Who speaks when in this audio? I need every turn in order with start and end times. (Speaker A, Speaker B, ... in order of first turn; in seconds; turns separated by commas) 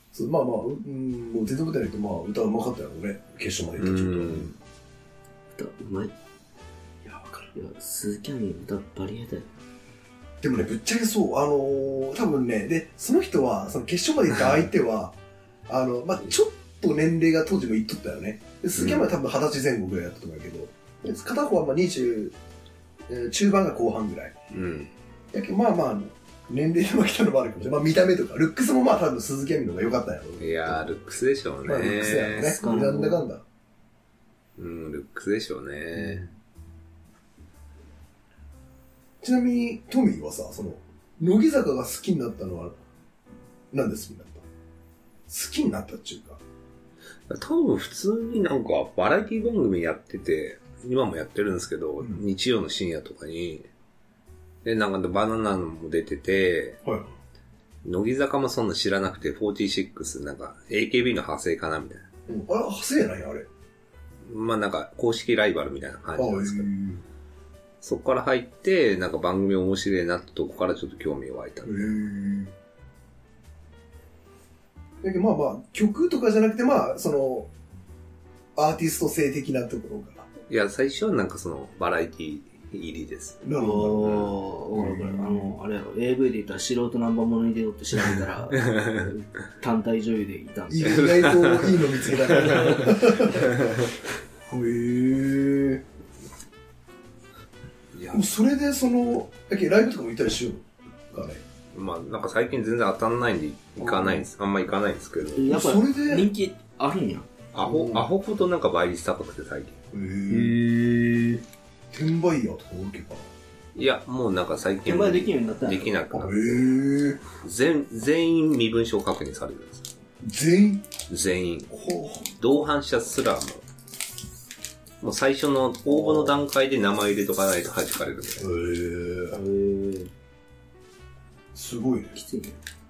Speaker A: 0.1-4.5, Speaker B: 3.8-4.5, Speaker C: 5.5-6.1, Speaker A: 7.0-7.5, Speaker C: 7.5-9.5, Speaker A: 10.4-15.1, Speaker A: 15.7-22.3, Speaker B: 18.8-19.1, Speaker A: 23.1-24.4, Speaker B: 24.5-24.9, Speaker A: 25.3-30.8, Speaker B: 30.4-32.6, Speaker A: 31.6-33.4, Speaker C: 32.4-33.2, Speaker B: 34.6-36.3, Speaker A: 36.0-36.3, Speaker A: 39.2-42.8, Speaker A: 43.7-44.4, Speaker A: 45.3-46.4, Speaker B: 47.3-53.6, Speaker B: 54.6-56.8, Speaker A: 56.8-57.1, Speaker B: 57.8-62.1, Speaker A: 62.3-63.5, Speaker B: 64.2-66.7, Speaker A: 66.1-67.0, Speaker B: 67.8-72.0, Speaker A: 71.6-72.5, Speaker A: 75.0-77.5, Speaker A: 78.5-80.3, Speaker B: 80.5-83.4, Speaker A: 83.4-84.2, Speaker C: 83.5-91.1, Speaker B: 84.0-84.3, Speaker A: 84.7-85.5, Speaker B: 88.5-89.1, Speaker A: 90.7-93.5, Speaker B: 90.8-93.4, Speaker A: 94.5-95.8, Speaker B: 97.9-98.2, Speaker A: 98.1-101.4, Speaker B: 101.7-105.5, Speaker A: 103.8-104.2, Speaker C: 105.4-107.3, Speaker A: 105.4-106.3, Speaker B: 107.5-109.8, Speaker A: 107.6-108.1, Speaker A: 109.9-110.6, Speaker C: 110.3-111.4, Speaker A: 111.9-113.3, Speaker B: 113.7-116.8, Speaker C: 114.8-115.9, Speaker A: 116.1-117.2, Speaker B: 117.3-119.9, Speaker A: 120.2-120.9, Speaker B: 121.1-121.7, Speaker A: 121.7-122.3, Speaker B: 122.3-123.6, Speaker B: 125.0-128.5, Speaker A: 125.8-126.5, Speaker A: 128.4-129.4, Speaker C: 129.3-130.1, Speaker A: 131.5-132.1, Speaker C: 132.1-132.6